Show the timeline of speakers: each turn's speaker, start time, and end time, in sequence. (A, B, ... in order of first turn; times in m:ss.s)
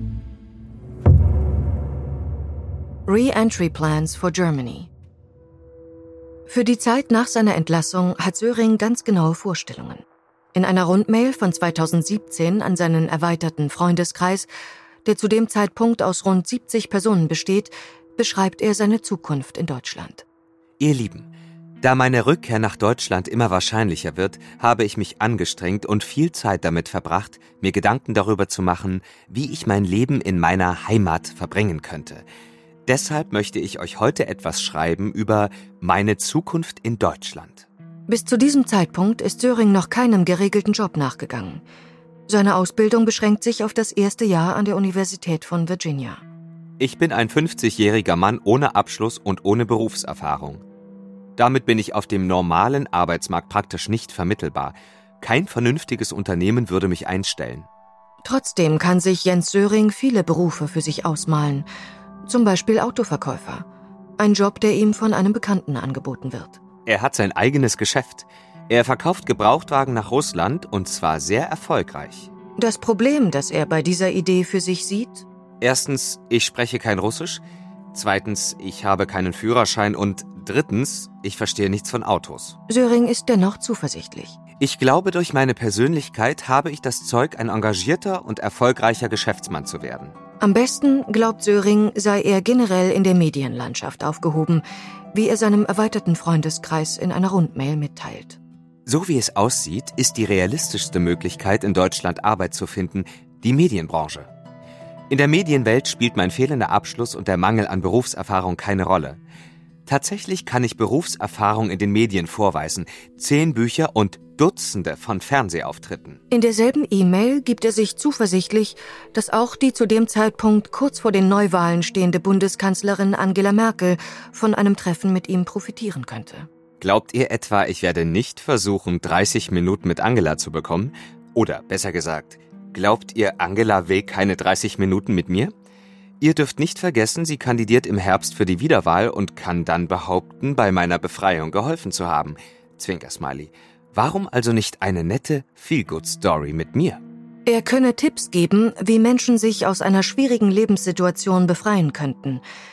0:03.1-0:04.9 A
0:06.5-0:10.0 A
0:10.5-0:14.5 A
0:15.0-0:20.2 A
0:20.8-0:21.3 B
0:21.8-0:32.2 B
0:32.9-0:37.7 B
0:38.1-0:41.6 A
0:42.3-0:46.2 A
0:46.8-0:50.6 B
0:51.4-0:57.7 B
0:58.2-1:01.7 A
1:02.3-1:03.7 A
1:04.2-1:06.6 A
1:06.9-1:12.3 B
1:12.6-1:15.3 A
1:15.6-1:17.4 B
1:17.9-1:22.6 B
1:22.7-1:24.4 A
1:24.6-1:30.1 B
1:30.4-1:38.4 A
1:38.9-1:44.3 B
1:45.1-1:49.2 B
1:49.9-1:56.2 B
1:56.3-2:06.5 A
2:06.8-2:15.5 B
2:16.2-2:27.0 B
2:27.5-2:32.4 A